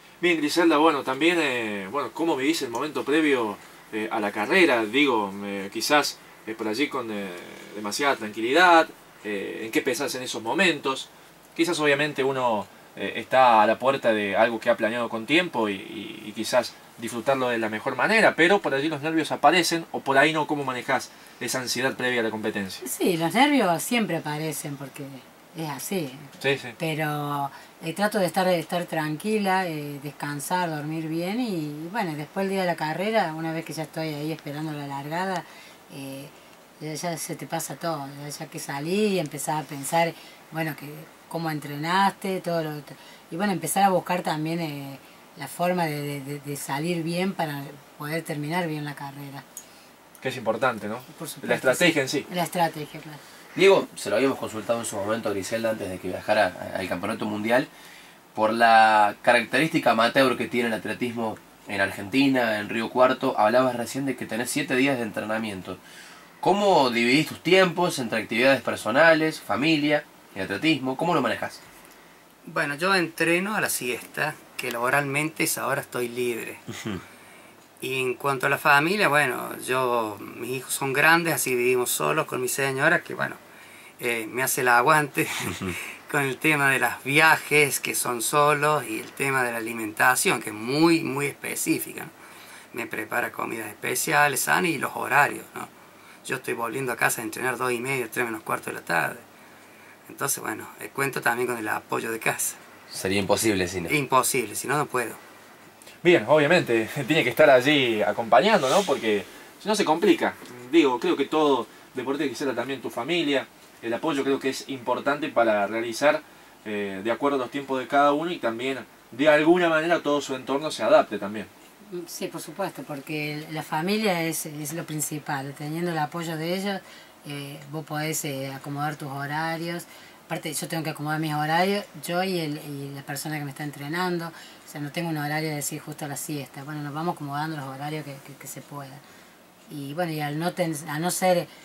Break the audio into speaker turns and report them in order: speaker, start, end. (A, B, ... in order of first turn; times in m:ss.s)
0:00.2-0:22.8 A
0:22.8-0:49.4 B
0:26.4-0:26.8 A
0:50.2-0:52.2 A
0:51.1-0:53.2 B
0:53.6-0:57.7 C
0:58.3-1:05.8 C
1:06.4-1:11.6 C
1:12.4-1:16.6 D
1:17.8-1:23.4 D
1:24.0-1:32.1 D
1:32.7-1:35.7 D
1:36.2-1:39.2 D
1:40.1-1:42.6 D
1:42.9-1:43.9 C
1:43.9-1:45.2 D
1:46.0-2:01.5 A
2:01.9-2:19.0 B
2:19.7-2:21.5 B